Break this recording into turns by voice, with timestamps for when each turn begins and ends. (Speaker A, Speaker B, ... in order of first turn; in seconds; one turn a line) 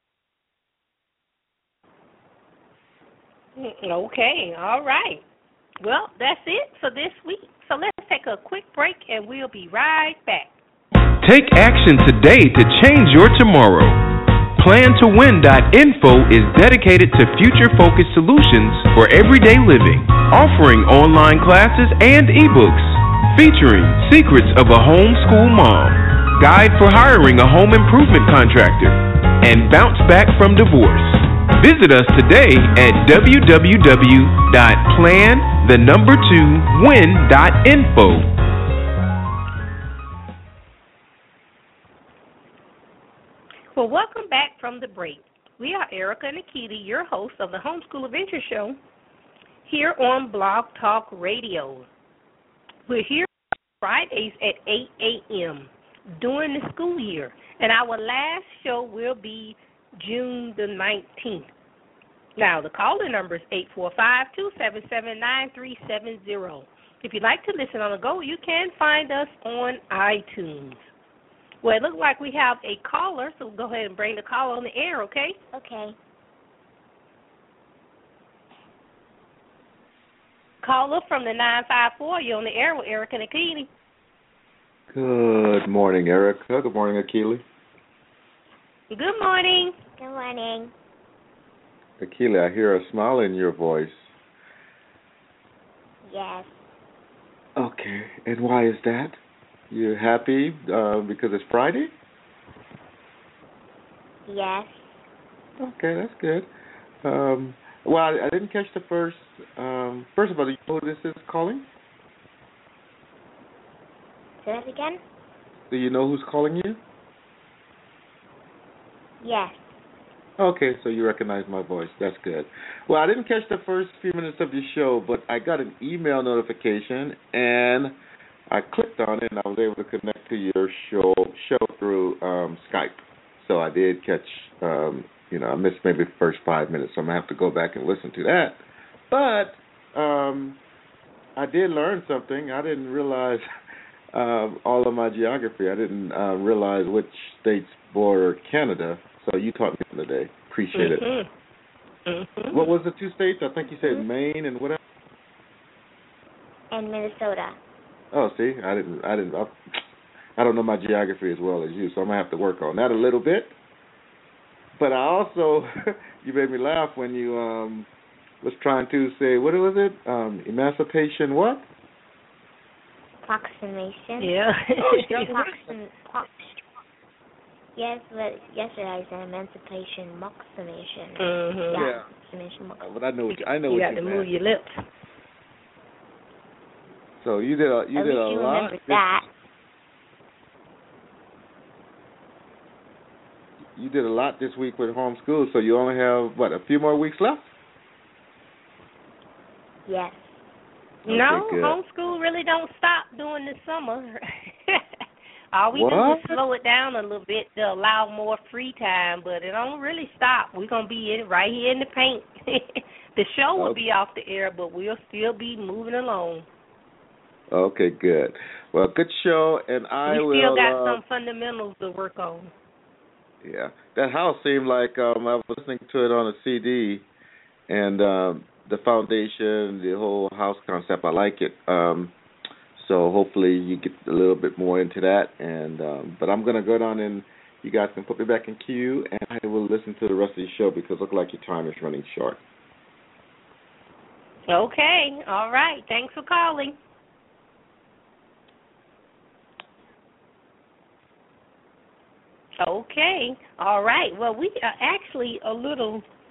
Speaker A: 3.5-5.2
Speaker A: 5.8-10.6
Speaker B: 11.2-14.0
Speaker B: 14.6-38.3
Speaker A: 43.7-48.8
Speaker A: 49.6-51.9
Speaker A: 52.9-61.5
Speaker A: 62.4-70.9
Speaker A: 71.6-75.4
Speaker C: 75.5-76.0
Speaker A: 80.6-83.7
Speaker D: 84.9-87.4
Speaker A: 88.9-89.8
Speaker C: 90.0-90.7
Speaker D: 92.0-94.1
Speaker C: 96.0-96.7
Speaker D: 97.5-99.2
Speaker D: 99.7-101.9
Speaker C: 104.3-105.0
Speaker D: 105.6-106.5
Speaker D: 107.0-111.7
Speaker C: 114.4-115.0
Speaker D: 115.7-116.8
Speaker C: 119.2-119.8
Speaker D: 120.4-128.0
Speaker D: 128.5-140.6
Speaker D: 141.3-143.4
Speaker D: 144.1-151.1
Speaker A: 150.7-151.3
Speaker A: 152.1-152.7
Speaker D: 152.5-154.8
Speaker C: 156.7-157.6
Speaker D: 158.1-159.6
Speaker D: 160.4-163.5
Speaker D: 164.8-167.9
Speaker D: 168.4-171.7
Speaker C: 173.2-174.3
Speaker A: 174.2-175.2
Speaker D: 174.8-175.7
Speaker C: 174.9-176.6
Speaker C: 177.7-182.9
Speaker A: 181.2-181.8
Speaker D: 181.7-182.1
Speaker D: 182.8-184.3
Speaker A: 183.7-184.8
Speaker D: 187.2-189.2
Speaker C: 187.9-189.3
Speaker D: 193.7-197.5
Speaker C: 199.8-200.5
Speaker D: 201.0-201.8
Speaker A: 201.1-205.0
Speaker A: 205.5-216.5
Speaker D: 205.7-206.4
Speaker D: 217.5-221.0
Speaker A: 220.1-222.5
Speaker D: 223.4-227.1
Speaker D: 227.7-232.1
Speaker D: 232.7-242.4
Speaker A: 244.5-246.8
Speaker A: 252.6-256.1